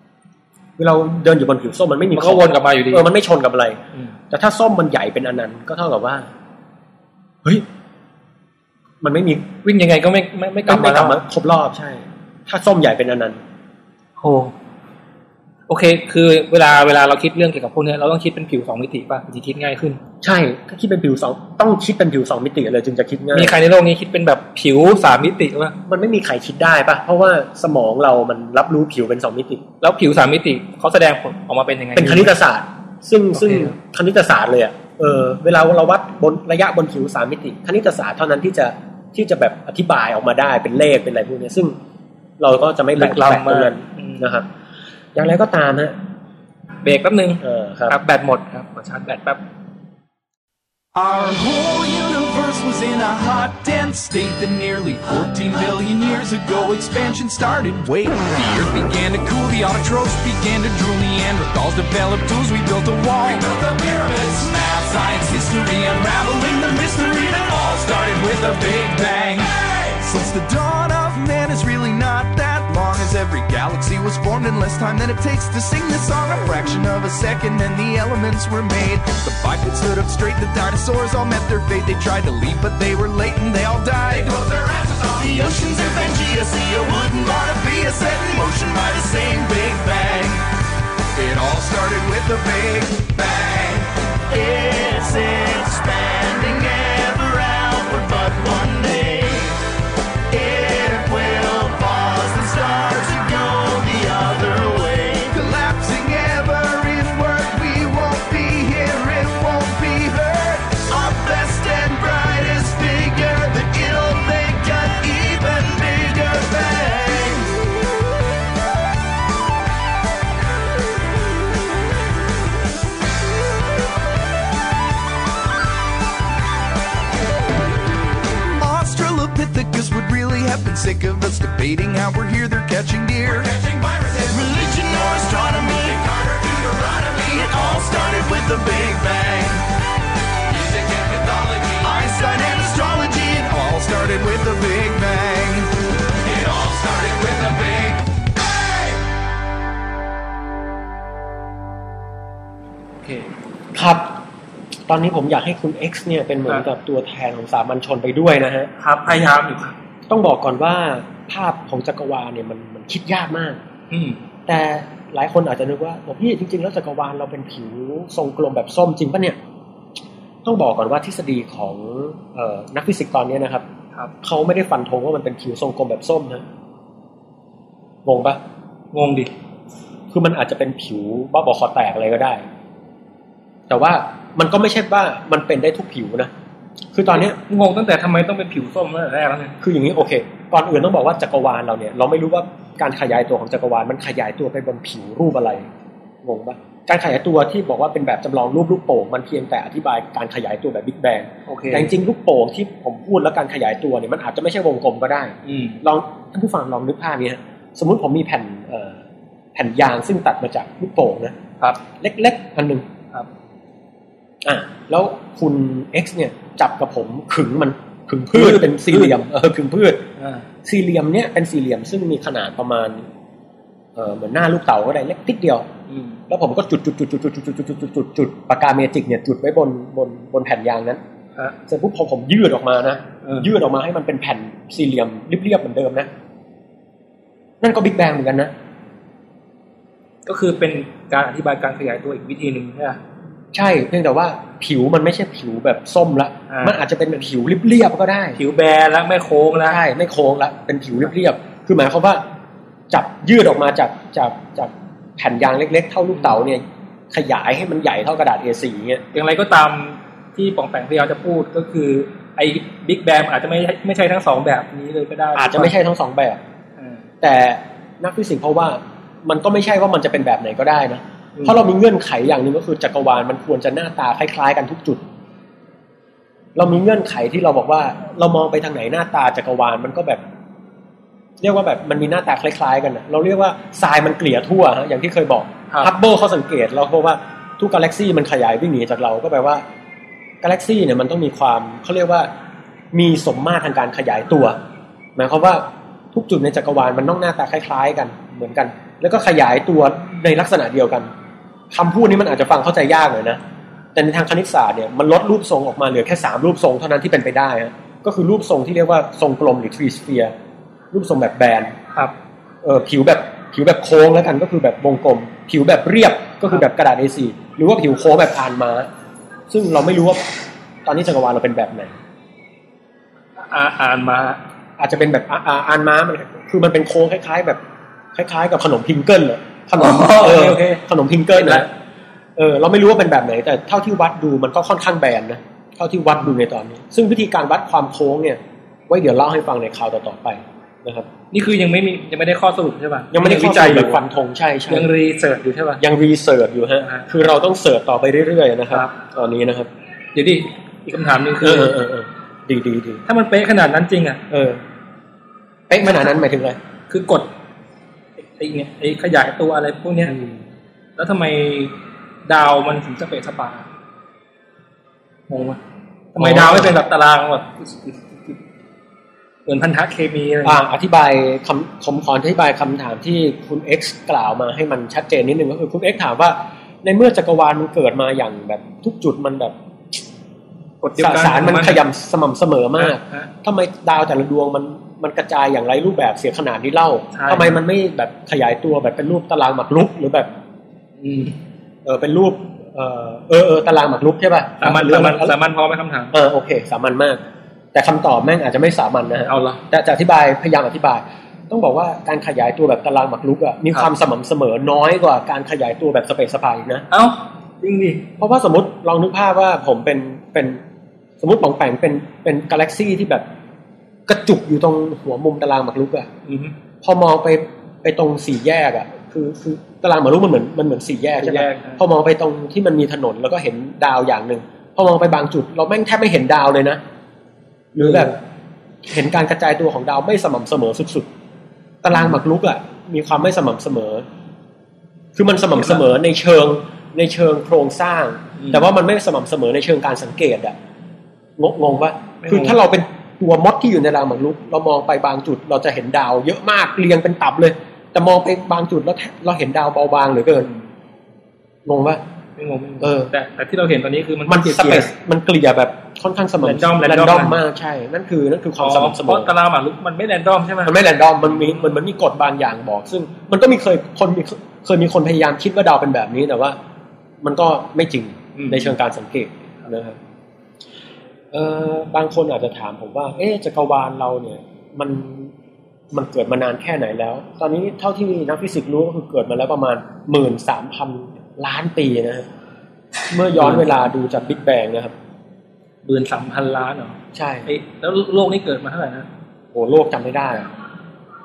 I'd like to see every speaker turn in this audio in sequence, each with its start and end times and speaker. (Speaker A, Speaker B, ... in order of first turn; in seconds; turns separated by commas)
Speaker A: 0.8-6.3, Speaker B: 2.1-3.0, Speaker A: 9.0-9.5, Speaker B: 9.6-11.2, Speaker A: 10.7-13.4, Speaker B: 14.2-14.5, Speaker B: 15.7-20.0, Speaker A: 20.2-23.6, Speaker B: 23.3-25.8, Speaker A: 25.9-29.6, Speaker B: 29.8-32.3, Speaker A: 31.9-41.8, Speaker B: 33.4-33.7, Speaker A: 42.4-44.5, Speaker B: 43.0-44.2, Speaker A: 45.1-46.0, Speaker B: 46.8-49.4, Speaker A: 47.4-48.0, Speaker C: 50.9-90.5, Speaker C: 91.1-99.6, Speaker C: 100.3-117.7, Speaker C: 128.6-139.7, Speaker C: 140.5-148.2, Speaker B: 153.0-153.3, Speaker A: 153.7-154.2, Speaker A: 154.9-158.7, Speaker B: 158.8-159.8, Speaker A: 160.1-163.6, Speaker B: 163.9-164.2, Speaker A: 164.5-169.4, Speaker A: 170.4-173.6, Speaker A: 174.2-176.4, Speaker A: 178.0-178.4, Speaker B: 178.9-179.3, Speaker A: 180.1-182.4, Speaker A: 183.7-186.3, Speaker A: 186.9-187.4, Speaker B: 187.2-189.6, Speaker A: 189.6-195.7, Speaker A: 196.2-209.0, Speaker B: 201.5-201.9, Speaker B: 205.4-205.8, Speaker A: 209.6-211.4, Speaker A: 211.9-212.8, Speaker A: 214.4-220.1, Speaker B: 218.3-219.2, Speaker B: 220.2-220.4, Speaker A: 220.6-223.1, Speaker A: 223.9-225.7, Speaker B: 225.9-226.2, Speaker A: 226.3-231.0, Speaker A: 231.7-236.1, Speaker A: 237.6-238.5, Speaker B: 240.2-243.0, Speaker A: 243.5-248.4, Speaker B: 246.5-246.8, Speaker B: 248.3-249.8, Speaker A: 249.6-252.2, Speaker A: 252.9-259.0, Speaker B: 259.1-265.7, Speaker A: 265.3-266.4, Speaker A: 267.2-275.0, Speaker A: 276.6-280.2, Speaker A: 281.4-289.6, Speaker A: 290.4-292.3, Speaker A: 292.9-294.6, Speaker A: 295.1-301.1, Speaker A: 301.7-303.4, Speaker A: 303.9-310.3, Speaker A: 310.9-311.7, Speaker A: 312.6-318.9, Speaker A: 319.5-320.3, Speaker A: 320.9-321.9, Speaker B: 323.5-324.4, Speaker A: 324.8-327.6, Speaker A: 328.1-331.7, Speaker B: 329.8-330.8, Speaker B: 331.3-331.7, Speaker A: 332.4-341.1, Speaker B: 341.3-344.0, Speaker A: 343.1-344.9, Speaker B: 344.7-345.8, Speaker A: 345.8-349.7, Speaker B: 346.8-347.1, Speaker B: 350.1-351.8, Speaker A: 351.4-353.0, Speaker B: 353.1-354.2, Speaker A: 354.3-354.6, Speaker A: 355.7-356.6, Speaker B: 356.9-357.3, Speaker B: 358.2-360.1, Speaker A: 360.1-360.4, Speaker B: 361.0-363.6, Speaker B: 365.3-365.6, Speaker B: 366.1-368.4, Speaker A: 366.2-366.7, Speaker B: 369.4-370.6, Speaker A: 370.4-379.5, Speaker B: 380.8-381.8, Speaker A: 381.0-390.3, Speaker B: 382.8-383.3, Speaker B: 387.1-387.6, Speaker B: 391.0-391.4, Speaker A: 391.9-395.4, Speaker B: 394.6-396.1, Speaker A: 396.1-397.2, Speaker A: 397.7-406.9, Speaker B: 399.2-399.6, Speaker B: 406.9-408.1, Speaker A: 408.2-410.6, Speaker A: 411.2-413.2, Speaker A: 414.1-416.1, Speaker B: 416.3-416.6, Speaker A: 416.8-426.8, Speaker B: 421.2-421.8, Speaker A: 427.7-428.2, Speaker B: 427.8-428.2, Speaker A: 428.9-431.1, Speaker A: 431.8-434.0, Speaker A: 435.1-440.5, Speaker B: 438.4-438.6, Speaker A: 441.4-450.5, Speaker B: 442.2-442.6, Speaker A: 451.6-452.0, Speaker B: 452.4-454.9, Speaker A: 452.8-453.1, Speaker A: 454.3-459.3, Speaker B: 456.4-457.4, Speaker B: 458.6-461.8, Speaker A: 460.6-466.6, Speaker A: 467.2-470.0, Speaker B: 468.4-468.7, Speaker A: 471.3-475.3, Speaker A: 475.9-482.2, Speaker A: 483.1-484.9, Speaker B: 483.4-483.7, Speaker B: 485.8-489.1, Speaker A: 487.1-487.5, Speaker A: 489.5-490.5